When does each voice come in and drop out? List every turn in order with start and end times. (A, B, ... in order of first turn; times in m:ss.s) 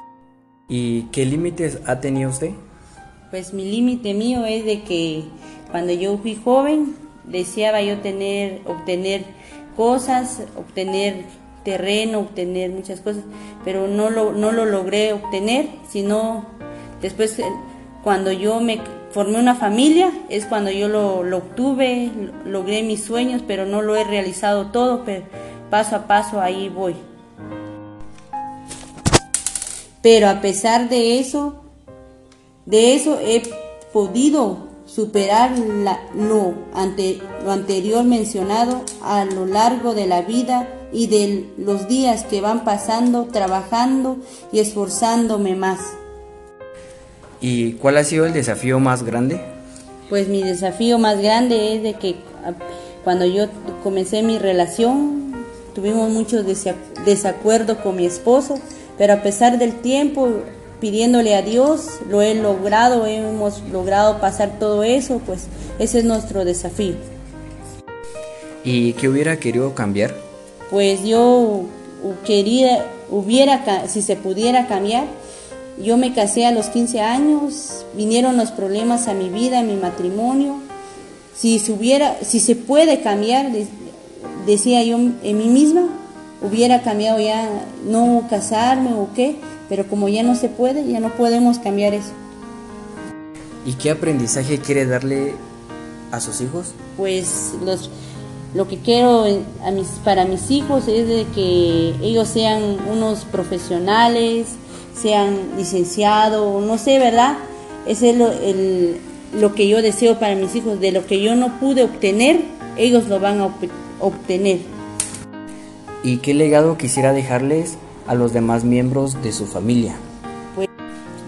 0:00.7-0:02.6 A
0:03.3-0:27.0 B
0:30.0-0:31.6 B
0:32.7-0:46.0 B
0:47.4-0:49.4 A
0:50.1-1:07.0 B
1:08.6-1:10.2 A
1:10.7-1:15.1 B
1:15.8-1:20.7 B
1:21.3-1:32.2 B
1:33.6-1:35.4 A
1:36.1-1:36.8 A
1:37.0-1:37.9 B
1:38.5-1:54.7 B
1:56.0-2:00.0 A